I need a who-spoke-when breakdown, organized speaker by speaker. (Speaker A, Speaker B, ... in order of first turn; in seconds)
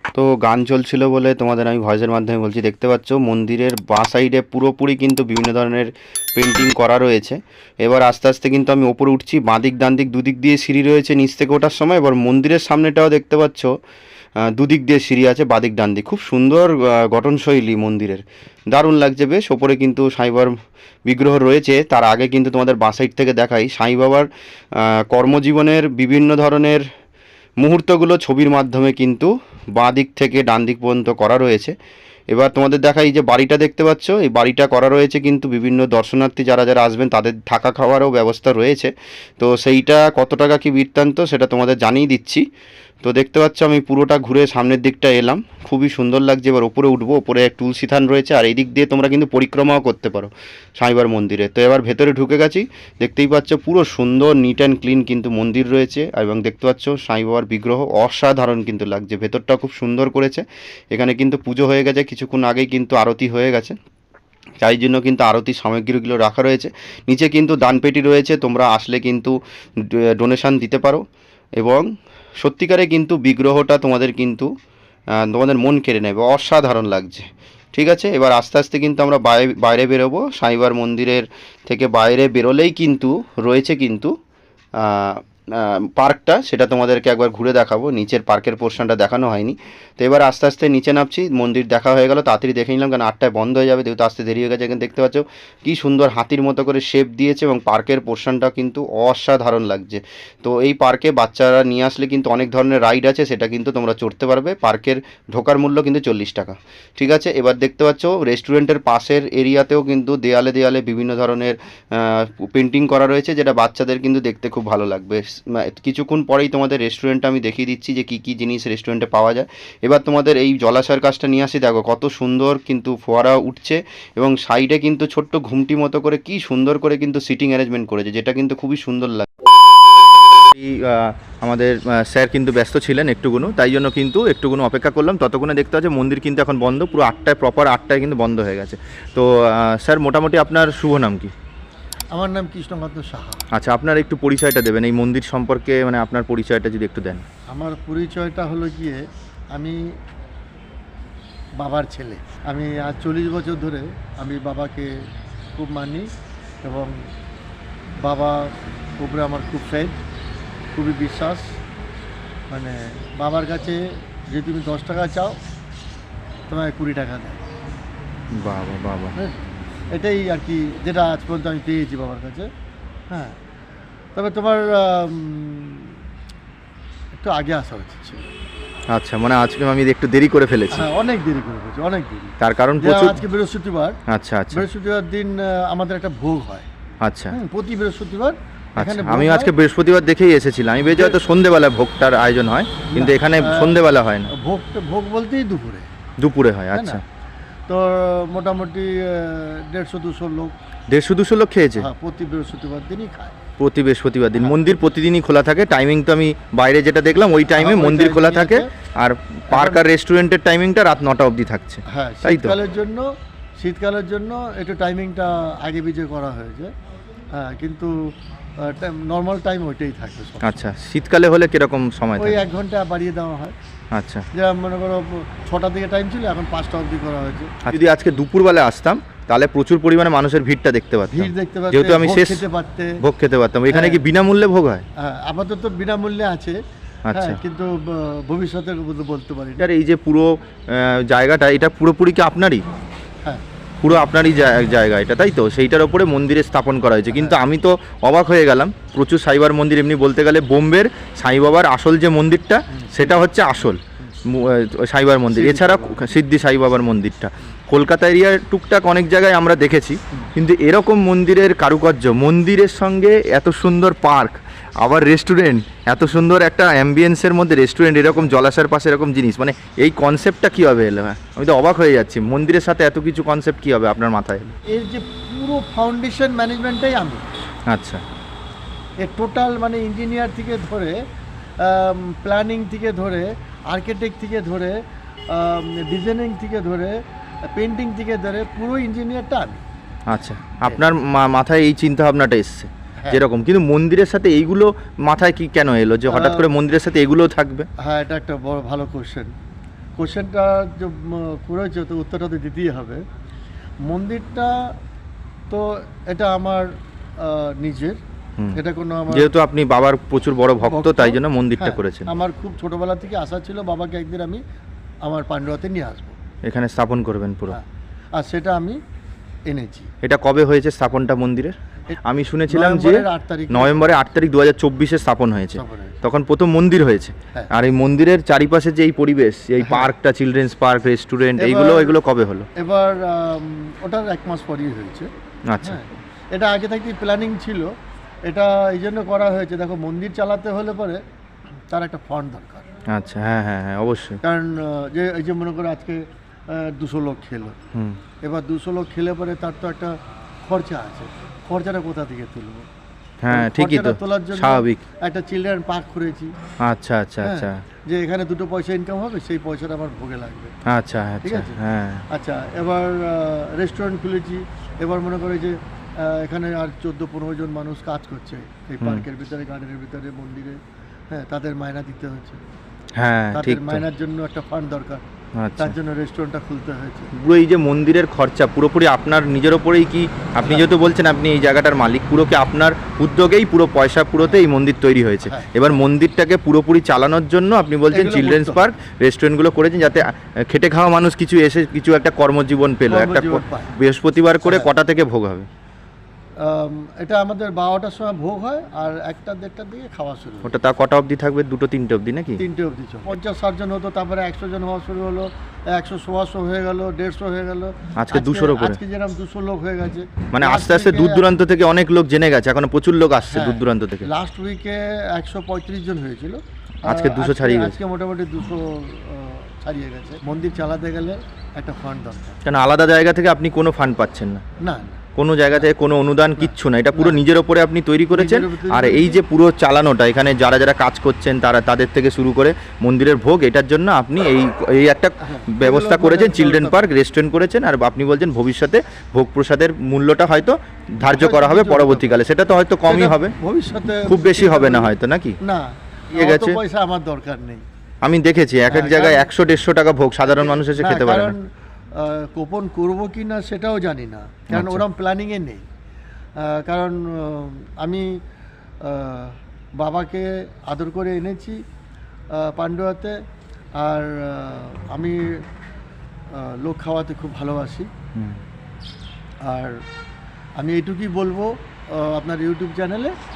Speaker A: 0.1-13.7, 14.5-20.5, 21.1-24.3, 24.8-26.8, 27.6-31.7, 32.3-42.4, 43.0-63.7, 64.6-69.4, 69.9-71.0, 71.5-71.8, 72.4-74.5, 75.2-84.1, 84.8-129.3
Speaker B: 130.5-141.3, 143.5-147.2, 168.3-169.1, 178.9-180.8, 182.4-183.2, 184.1-184.6, 187.0-187.3, 188.8-194.3, 196.2-197.0, 200.9-201.9, 203.6-212.6, 220.4-222.4, 223.9-224.3, 227.7-232.4, 233.0-234.8, 237.1-237.4, 239.6-242.6, 243.8-274.5, 277.7-278.0, 290.1-297.7, 309.1-312.1, 316.4-317.6, 320.0-332.5, 335.5-335.8, 342.9-344.2, 347.7-348.0, 353.2-354.8, 356.6-357.6, 360.6-362.0, 372.9-373.8, 375.4-375.7, 377.1-395.5, 400.4-402.4, 407.9-408.8, 410.3-414.1, 416.8-417.8, 422.4-424.4, 425.1-443.3, 444.0-445.4, 446.2-446.6, 448.0-451.3, 454.5-454.8, 468.1-468.4
Speaker C: 142.1-143.4, 147.5-149.9, 151.6-156.1, 156.6-157.1, 158.0-160.0, 160.7-161.6, 162.5-165.4, 166.5-167.4, 169.2-172.5, 173.1-173.4, 174.1-175.9, 177.2-178.3, 180.7-184.0, 184.5-186.7, 187.3-189.5, 192.9-193.7, 194.3-195.9, 196.7-197.0, 197.7-200.6, 201.8-203.4, 204.3-204.8, 207.5-208.7, 209.5-209.8, 211.9-216.7, 217.3-220.6, 222.2-223.5, 224.3-227.8, 231.1-233.0, 233.7-234.0, 235.0-236.6, 237.1-239.7, 247.1-247.4, 252.7-253.2, 255.3-256.1, 274.6-277.2, 279.0-281.0, 281.6-289.6, 296.1-296.4, 297.8-299.3, 300.0-303.0, 303.8-304.8, 305.5-308.0, 308.5-309.3, 310.6-314.4, 315.0-316.2, 317.5-318.8, 319.5-319.9, 322.5-324.1, 325.5-326.0, 331.4-332.0, 332.6-335.1, 335.6-337.7, 338.2-341.0, 341.7-342.7, 344.2-347.6, 348.2-352.6, 353.3-356.3, 357.2-360.5, 361.2-361.6, 362.1-372.4, 373.3-375.0, 375.6-377.1, 385.2-385.5, 387.9-388.6, 392.9-393.7, 396.4-400.6, 402.4-411.2, 413.3-422.4, 424.6-425.7, 426.4-427.2, 428.1-429.2, 435.2-436.9, 441.1-442.1, 442.9-447.6, 448.7-449.3, 450.3-455.6, 456.4-458.2, 458.8-461.6, 462.3-463.2, 463.7-465.4, 466.3-467.9, 469.4-469.8, 470.6-473.1